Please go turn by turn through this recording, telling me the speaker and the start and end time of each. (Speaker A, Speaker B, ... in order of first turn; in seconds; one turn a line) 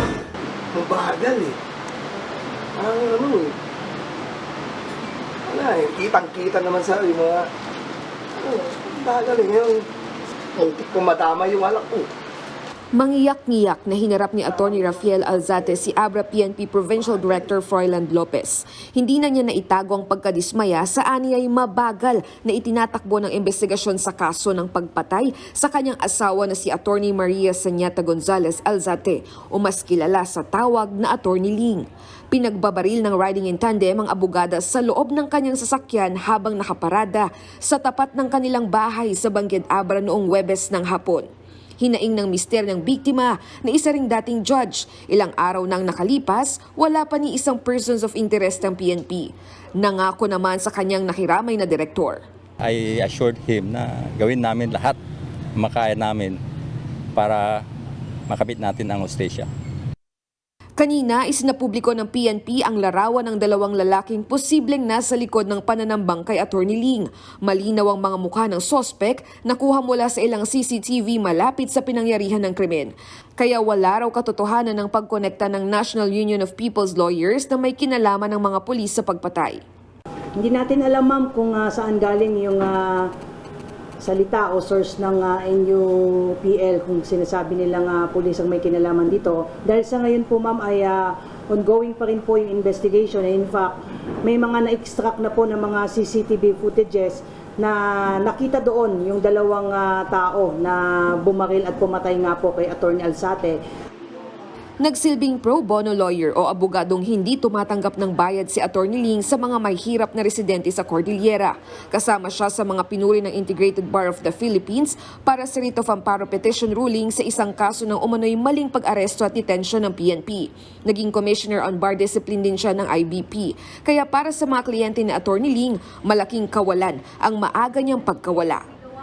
Speaker A: 0.8-1.6
Speaker A: 2.8-3.5
Speaker A: 5.5-7.5
Speaker A: 8.4-9.9
Speaker A: 10.6-12.1
Speaker B: 12.9-41.2
Speaker B: 41.8-52.2
Speaker C: 52.6-55.0
Speaker C: 55.6-56.4
Speaker C: 57.1-57.6
Speaker C: 58.3-59.5
Speaker B: 60.8-79.6
Speaker D: 80.4-83.1
Speaker D: 84.0-103.6
Speaker B: 104.8-128.6